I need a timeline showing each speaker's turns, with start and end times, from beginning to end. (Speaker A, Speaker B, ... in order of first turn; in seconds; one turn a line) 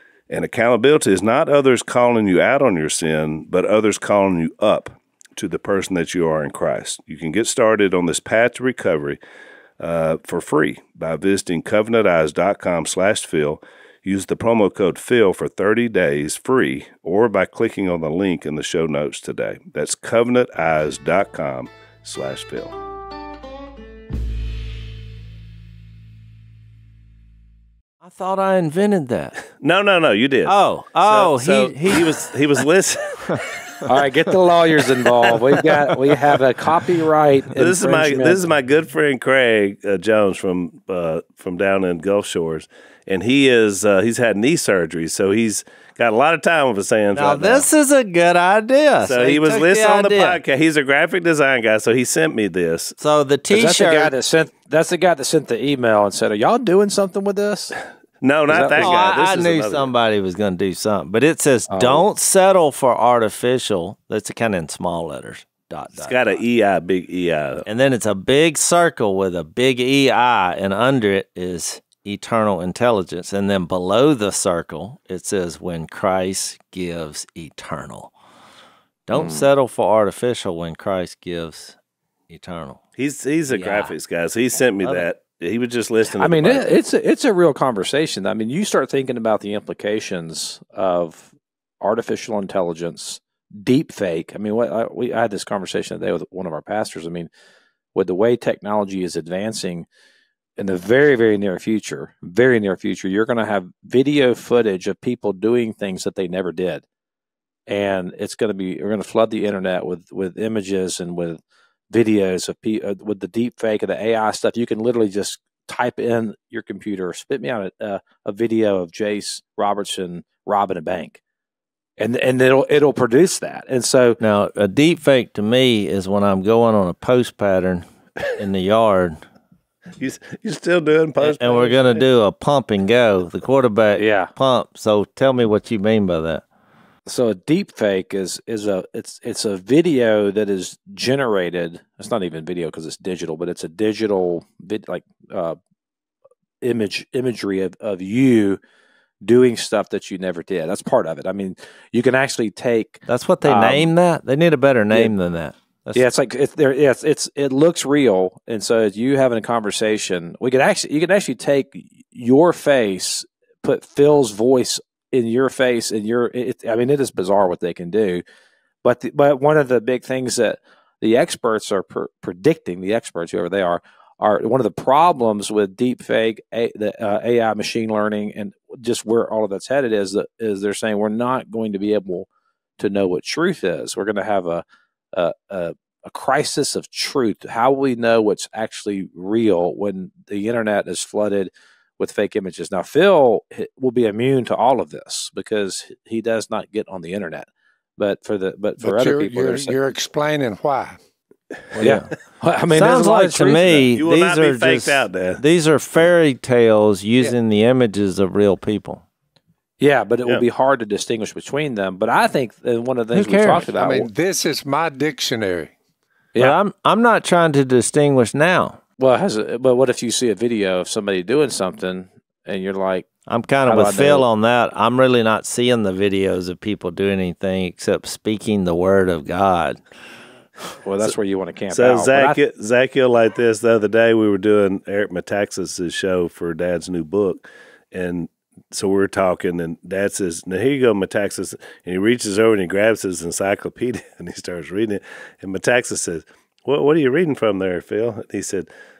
Speaker A: 0.3-9.2
Speaker A: 9.8-22.7
Speaker B: 28.0-29.4
Speaker A: 29.5-33.8
Speaker B: 30.5-32.1
Speaker C: 33.9-38.5
Speaker A: 37.5-47.7
Speaker B: 47.1-50.4
Speaker A: 49.0-53.0
Speaker B: 53.0-54.1
Speaker C: 53.5-57.8
Speaker A: 58.2-59.9
Speaker C: 58.5-59.0
Speaker B: 58.7-66.3
Speaker C: 61.7-62.0
Speaker A: 66.0-67.7
Speaker B: 67.7-78.1
Speaker B: 79.1-81.8
Speaker C: 79.1-79.5
Speaker B: 82.3-82.8
Speaker A: 83.0-86.8
Speaker B: 83.5-84.0
Speaker C: 86.2-97.3
Speaker C: 97.9-99.9
Speaker C: 100.6-106.8
Speaker C: 107.7-111.4
Speaker C: 111.9-121.2
Speaker C: 122.0-124.2
Speaker B: 124.2-129.2
Speaker A: 130.0-132.1
Speaker B: 131.2-136.4
Speaker C: 134.0-134.3
Speaker C: 137.1-145.6
Speaker C: 146.6-148.6
Speaker C: 149.2-153.9
Speaker B: 153.1-156.1
Speaker C: 155.9-168.2
Speaker C: 168.8-182.3
Speaker C: 182.8-199.8
Speaker D: 198.8-201.0
Speaker C: 201.8-203.9
Speaker B: 201.8-202.1
Speaker B: 202.7-209.0
Speaker A: 203.9-205.4
Speaker C: 209.8-214.1
Speaker B: 213.1-213.7
Speaker D: 213.8-215.7
Speaker B: 216.4-218.8
Speaker C: 219.0-223.1
Speaker B: 223.3-229.8
Speaker C: 223.7-224.3
Speaker C: 230.8-232.4
Speaker A: 231.7-248.7